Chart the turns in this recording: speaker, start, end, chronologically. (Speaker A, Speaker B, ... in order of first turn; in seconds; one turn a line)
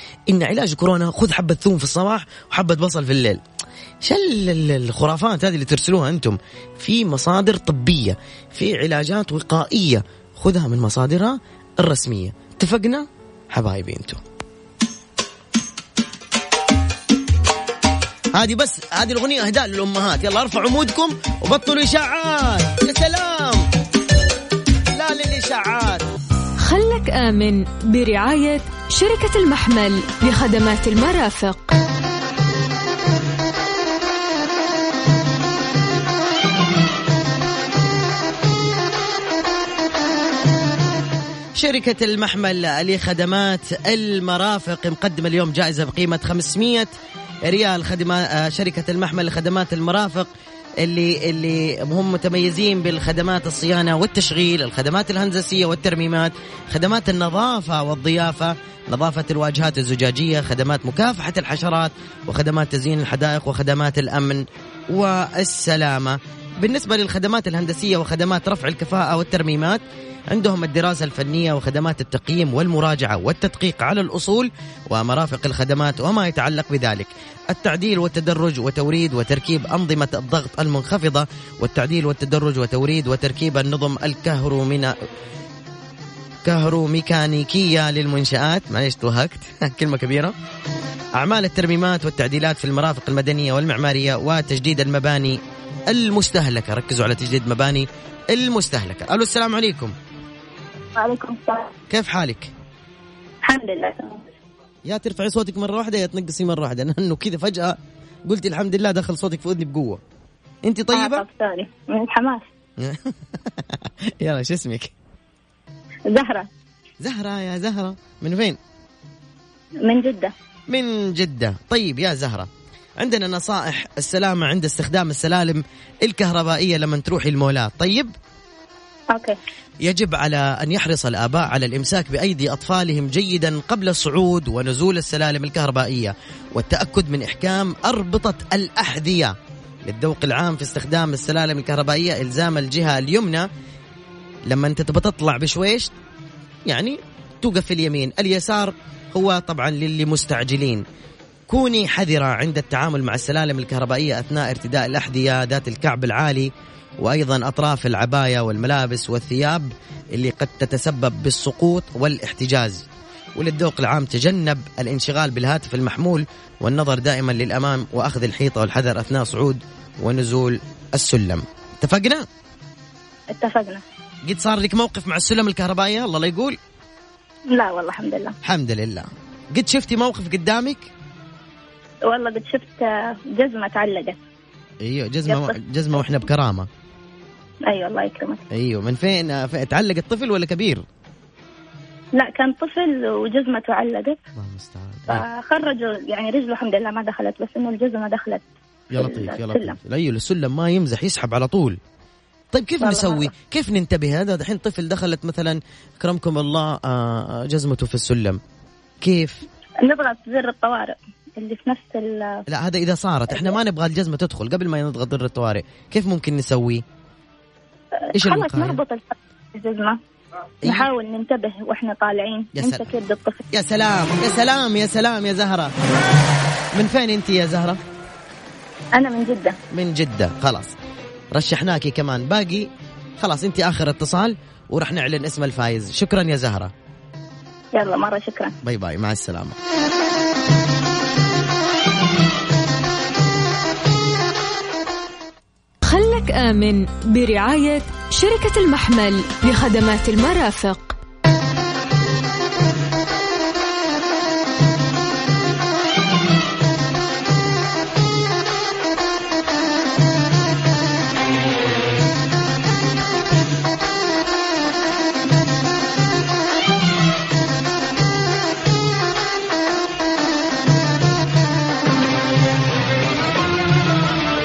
Speaker A: 0.3-3.4
Speaker A: 4.0-14.2
Speaker A: 18.3-23.7
Speaker A: 24.9-26.1
Speaker B: 26.6-31.8
Speaker A: 41.5-46.9
Speaker A: 47.5-84.9
Speaker A: 86.4-90.3
Speaker A: 91.2-99.9
Speaker C: 101.0-101.7
Speaker A: 101.9-102.5
Speaker C: 103.4-104.3
Speaker A: 104.8-110.0
Speaker A: 110.6-111.2
Speaker C: 110.9-112.5
Speaker A: 112.8-114.9
Speaker C: 116.1-116.5
Speaker A: 117.0-118.6
Speaker C: 119.8-120.3
Speaker A: 120.7-122.5
Speaker A: 123.0-128.1
Speaker A: 129.8-143.5
Speaker A: 144.5-145.9
Speaker A: 146.7-150.8
Speaker A: 151.5-172.3
Speaker C: 173.3-173.8
Speaker A: 174.2-176.6
Speaker C: 177.5-178.3
Speaker A: 178.4-180.9
Speaker C: 182.1-184.2
Speaker A: 184.8-186.7
Speaker C: 185.3-185.6
Speaker C: 187.6-188.4
Speaker A: 188.5-190.8
Speaker C: 192.2-194.2
Speaker A: 194.4-195.2
Speaker C: 195.1-199.8
Speaker A: 198.9-201.8
Speaker A: 202.5-208.4
Speaker C: 202.8-203.3
Speaker A: 209.0-209.4
Speaker C: 209.8-212.4
Speaker A: 212.5-216.8
Speaker C: 218.1-220.0
Speaker A: 218.1-218.8
Speaker C: 220.6-223.4
Speaker A: 222.5-222.9
Speaker A: 223.5-225.7
Speaker A: 226.7-227.8
Speaker C: 228.9-229.6
Speaker A: 229.7-230.7
Speaker A: 231.3-232.7
Speaker A: 233.2-236.7
Speaker C: 237.8-238.5
Speaker A: 238.6-239.6
Speaker B: 245.8-251.0